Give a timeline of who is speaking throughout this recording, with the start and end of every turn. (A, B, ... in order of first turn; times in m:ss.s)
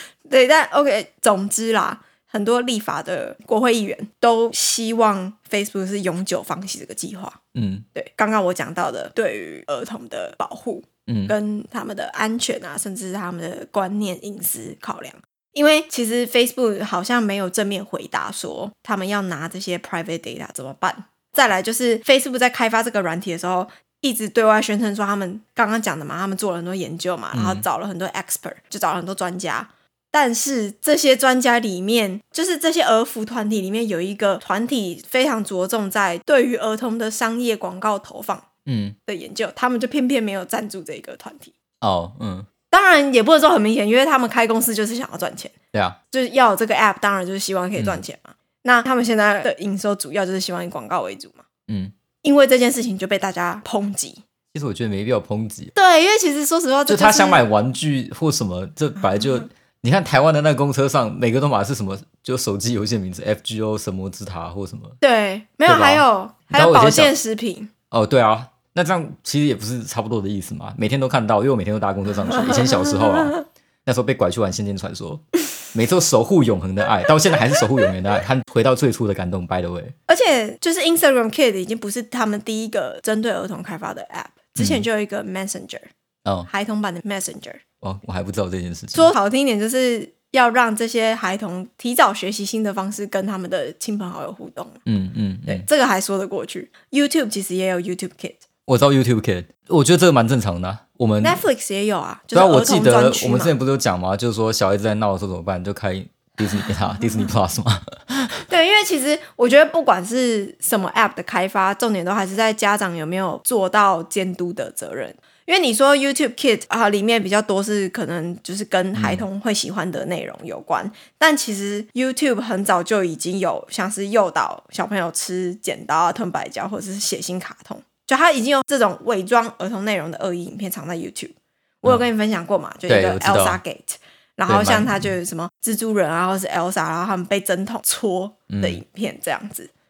0:00.3-0:07.4 A
0:07.5-0:07.8 B
0:07.9-0:38.4 A
0:11.1-0:11.3 B
0:27.3-0:27.6 B
0:38.6-0:39.0 B
0:39.0-0:41.5 A
0:41.8-0:42.5 B
0:42.7-0:45.5 A
0:45.7-0:46.0 B
0:46.1-0:51.4 A
0:51.7-0:51.9 B
0:52.2-0:54.2 A
0:54.5-0:55.7 B
0:55.7-0:57.4 A
0:56.9-1:05.0 B
1:05.0-1:07.7 A
1:05.6-1:07.1 B
1:07.9-1:19.9 B
1:20.1-1:25.9 A
1:24.6-1:24.8 B
1:26.5-1:27.6 A
1:27.8-1:29.1 B
1:28.9-1:34.8 A
1:34.8-1:35.6 B
1:35.5-1:38.4 A
1:38.7-1:41.4 B
1:41.2-1:43.5 A
1:42.3-1:48.4 B
1:48.5-2:19.7 A
1:58.9-1:59.2 B
2:12.9-2:13.6 B
2:14.5-2:15.1 B
2:18.5-2:18.8 B